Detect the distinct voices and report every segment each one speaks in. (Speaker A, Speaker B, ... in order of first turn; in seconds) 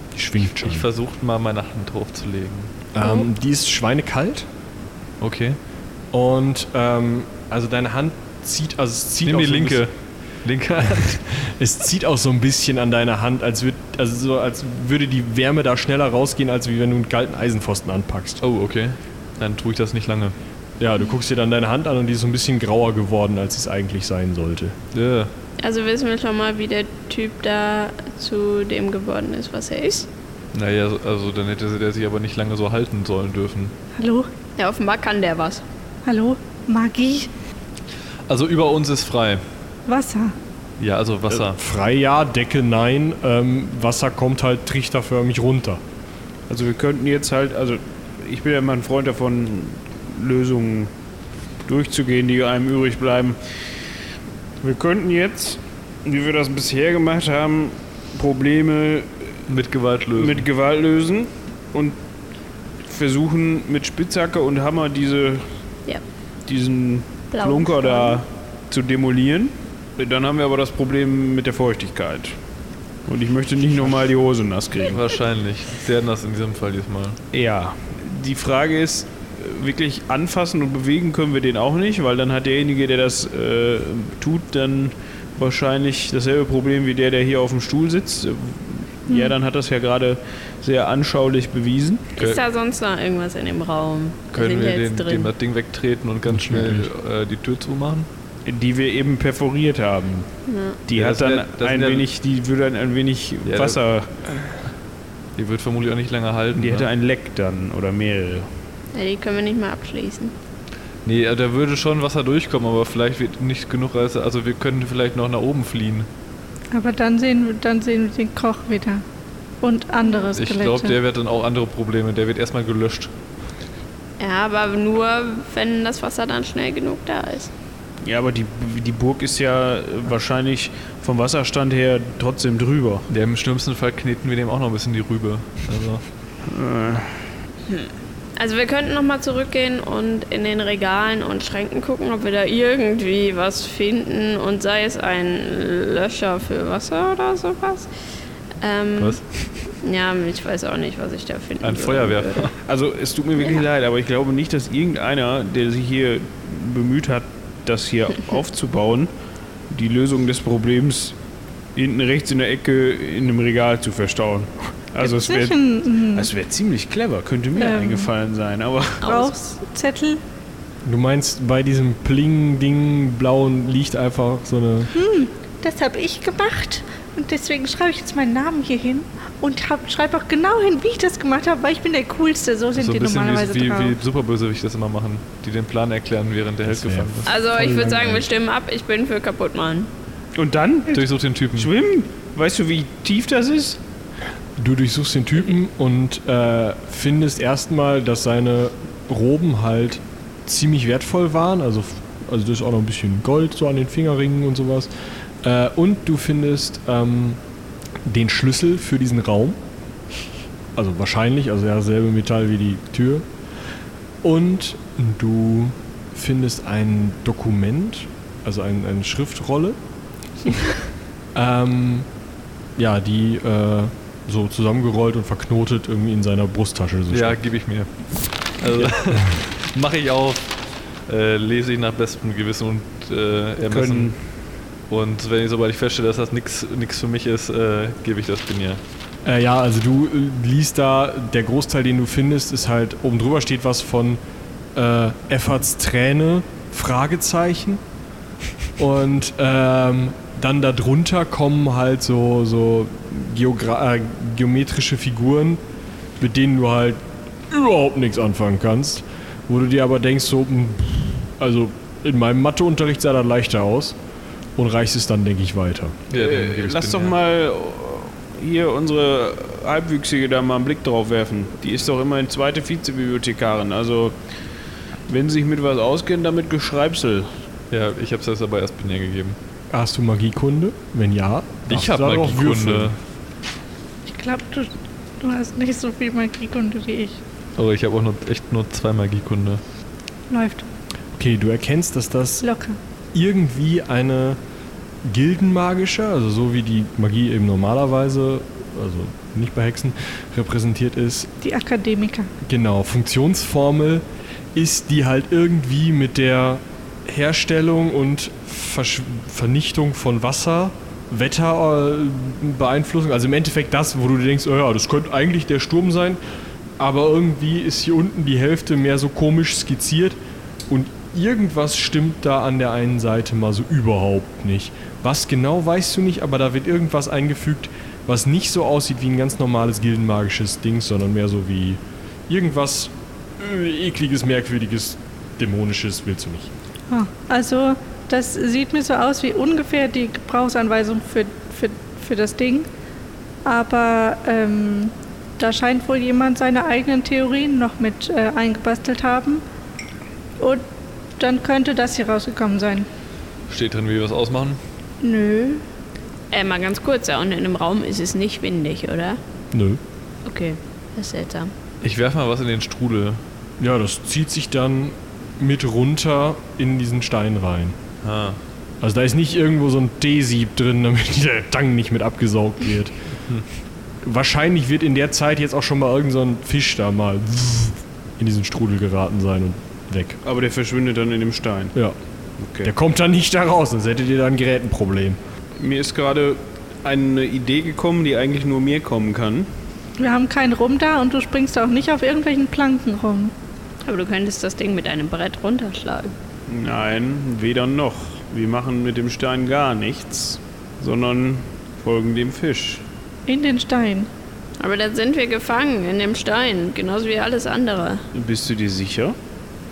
Speaker A: 0.1-0.9, 2.9-4.5, 6.1-9.8, 10.8-18.4, 20.8-24.7, 41.5-45.8, 96.3-96.9, 170.8-174.9, 186.7-188.3, 194.6-204.9, 205.4-207.4, 208.0-209.6, 210.8-213.2, 214.2-219.8, 221.3-222.1, 222.8-227.4, 239.2-244.2, 244.7-247.8, 248.8-255.6, 256.2-264.0, 264.6-266.0, 279.7-283.0, 291.1-292.4, 293.1-294.4, 295.0-301.3, 302.4-316.2, 316.8-336.5, 359.5-359.8, 363.6-367.8, 368.8-372.9, 374.0-380.2, 382.6-385.2
Speaker B: 0.5-2.7, 5.2-5.6, 9.2-9.9, 10.4-11.2, 18.4-20.4, 24.9-25.3, 30.5-33.7, 38.3-39.4, 40.8-41.6, 59.5-60.5, 74.8-77.2, 94.3-98.1, 100.9-102.1, 103.4-103.8, 105.3-106.9, 111.0-116.1, 120.4-123.1, 133.1-136.0, 149.0-149.5, 151.6-152.5, 182.7-187.3, 190.9-191.7, 227.1-234.2, 234.9-238.8, 266.1-267.1, 277.7-279.4, 281.7-283.0, 287.6-289.6, 353.5-354.6, 361.8-363.2, 368.0-368.4
Speaker C: 3.0-3.3, 25.6-30.1, 34.6-35.6, 67.3-68.2, 92.2-95.3, 100.5-100.8, 108.9-110.3, 124.2-127.5, 137.7-147.9, 148.6-152.5, 169.0-169.3, 187.2-189.9, 356.3-359.2, 360.2-361.5, 393.8-396.1, 404.6-408.0
Speaker D: 34.0-34.3, 36.0-37.3, 39.9-40.4, 89.1-89.3, 116.7-119.0, 119.6-121.0, 165.0-166.3, 167.6-168.1, 169.0-170.2, 174.9-184.0, 284.1-287.2, 290.3-290.6, 292.4-292.8, 301.4-302.3, 336.9-342.7, 343.4-349.4, 351.2-352.9, 355.0-355.6, 390.0-393.3, 403.3-404.1
Speaker E: 46.5-50.9, 51.6-53.4, 54.6-59.1, 60.1-62.0, 62.8-65.4, 66.5-72.4, 73.0-75.0, 77.3-92.1, 98.5-100.3, 100.9-104.1, 106.5-108.5, 128.0-133.1, 136.4-137.2, 152.6-159.1, 159.7-161.1, 161.7-169.1, 190.3-191.0, 191.5-193.8, 233.6-234.3, 266.1-274.1, 275.1-277.3, 380.2-381.7, 382.4-382.7, 385.6-389.5, 396.5-402.8, 408.1-409.1